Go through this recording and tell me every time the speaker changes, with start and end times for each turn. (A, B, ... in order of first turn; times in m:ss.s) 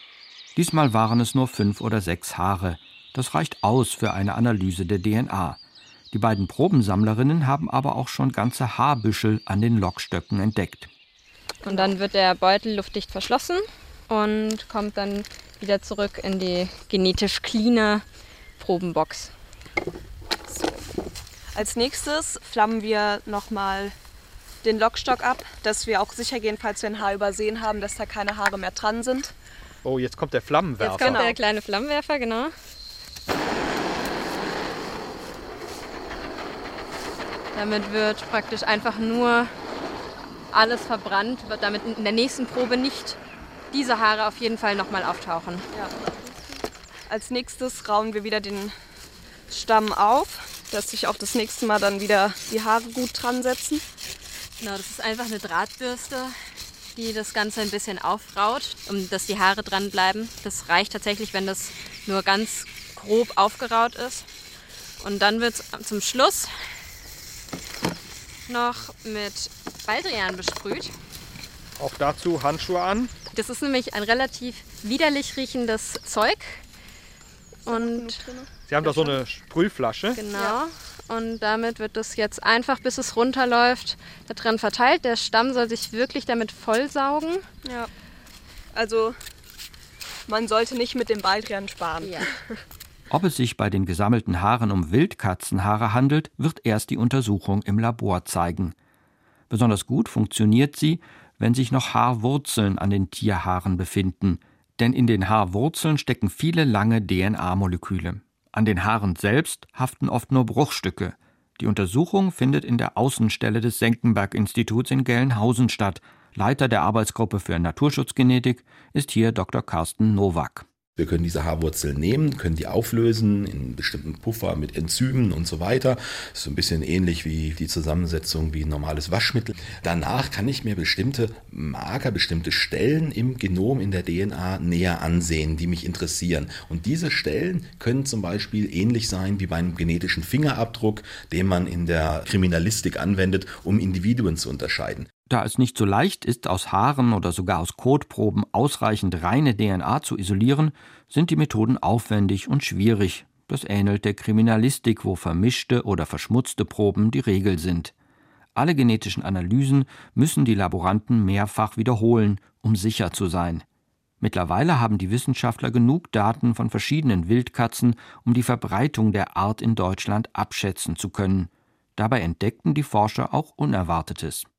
0:00.6-0:05.6 A
0:06.1-0:10.9 A
0:11.6-0:18.0 B
0:11.6-0:12.0 C
0:18.6-0:19.3 B
0:20.5-0:20.8 C
0:21.5-0:23.9 C
0:24.6-0:29.3 C
0:29.8-0:31.2 D
0:30.8-0:32.5 B
0:30.8-0:31.4 C
0:37.5-0:39.5 B
0:40.5-0:43.2 B
0:43.7-0:45.6 B
0:45.7-0:46.5 C
0:47.1-0:48.7 C
0:49.5-0:53.8 C
0:54.6-0:56.3 B
0:57.0-1:04.2 B
1:05.0-1:06.5 B
1:08.5-1:10.9 B
1:11.8-1:13.1 D
1:13.3-1:16.6 B
1:17.6-1:18.2 B
1:17.6-1:19.2 C
1:18.7-1:20.2 D
1:20.1-1:27.4 B
1:20.3-1:20.6 C
1:28.7-1:29.1 C
1:30.3-1:32.5 C
1:32.0-1:32.3 B
1:33.1-1:38.7 A
1:39.5-2:00.6 A
2:01.0-2:25.1 E
2:25.3-2:37.9 A
2:38.6-2:43.6 A
2:44.2-2:54.5 A